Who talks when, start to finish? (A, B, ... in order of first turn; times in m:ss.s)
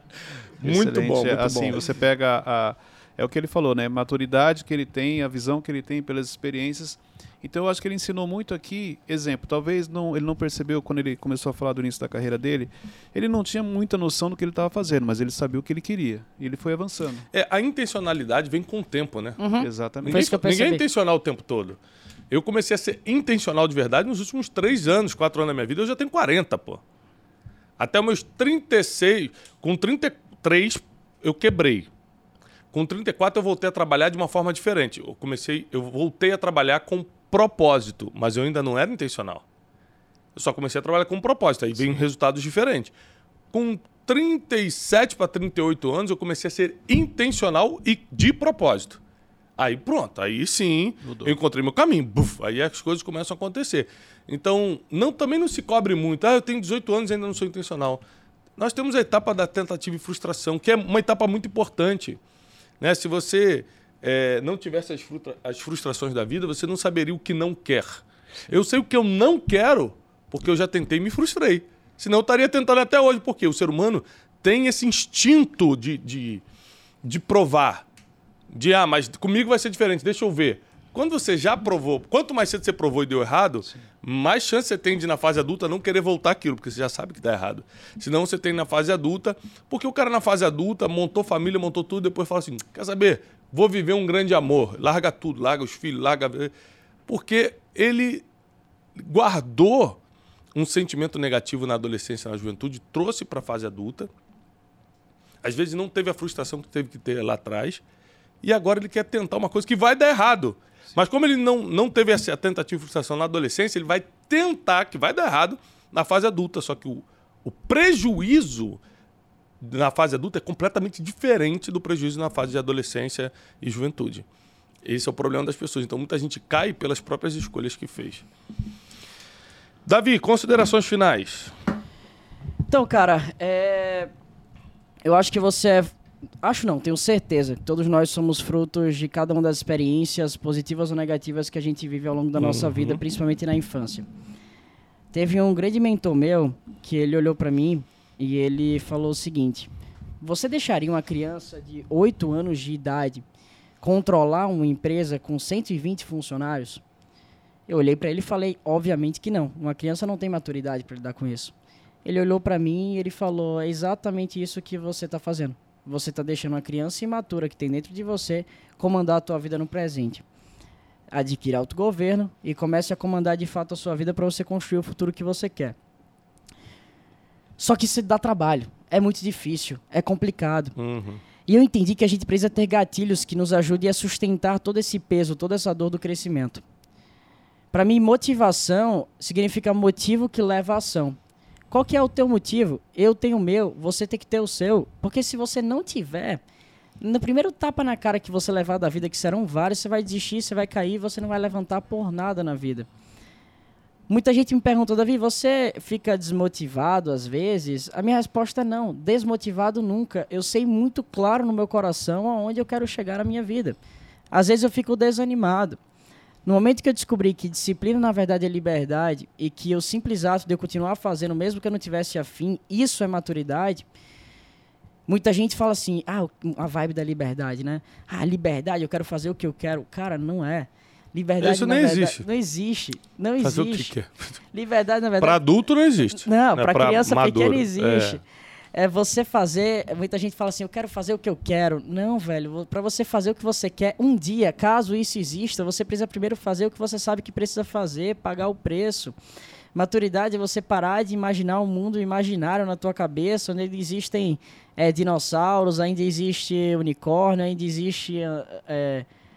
0:00.6-0:01.8 A
0:00.6-0:17.2 B
0:17.3-0:19.4 A
0:19.4-0:20.8 C
0:19.6-0:20.4 B
0:20.0-0:21.8 A
0:22.3-0:26.8 A
0:27.8-0:31.9 A
0:32.7-0:39.4 A
0:40.4-0:42.9 A
0:43.5-0:49.0 A
0:49.6-0:58.0 A
0:51.0-0:51.4 B
0:58.6-1:02.2 A
1:02.8-1:16.4 A
1:17.0-1:17.8 A
1:18.5-1:36.5 A
1:37.1-1:38.2 A
1:39.0-1:40.0 A
1:40.5-1:44.1 A
1:45.4-1:47.8 A
1:48.4-1:58.8 A
1:59.6-2:04.2 A
2:04.8-2:08.2 A
2:09.8-2:11.5 A
2:12.7-2:14.1 C
2:15.0-2:15.9 C
2:16.4-2:24.0 C
2:22.3-2:23.0 A
2:25.1-2:29.7 C
2:30.2-2:33.2 C
2:33.8-2:36.8 C
2:37.7-2:41.5 C
2:42.0-2:50.2 C
2:51.1-2:55.8 C
2:57.6-3:00.7 C
3:00.8-3:01.2 A
3:01.5-3:06.6 C
3:07.7-3:11.2 C
3:11.7-3:16.4 C
3:17.0-3:22.9 C
3:24.1-3:33.8 C
3:34.3-3:35.8 C
3:36.4-3:43.8 C
3:45.1-3:53.9 C
3:51.4-3:52.2 A
3:53.4-3:54.4 A
3:54.5-3:55.4 C
3:55.2-3:58.2 A
3:56.1-3:58.2 C
3:58.7-4:09.2 C
4:09.7-4:19.0 C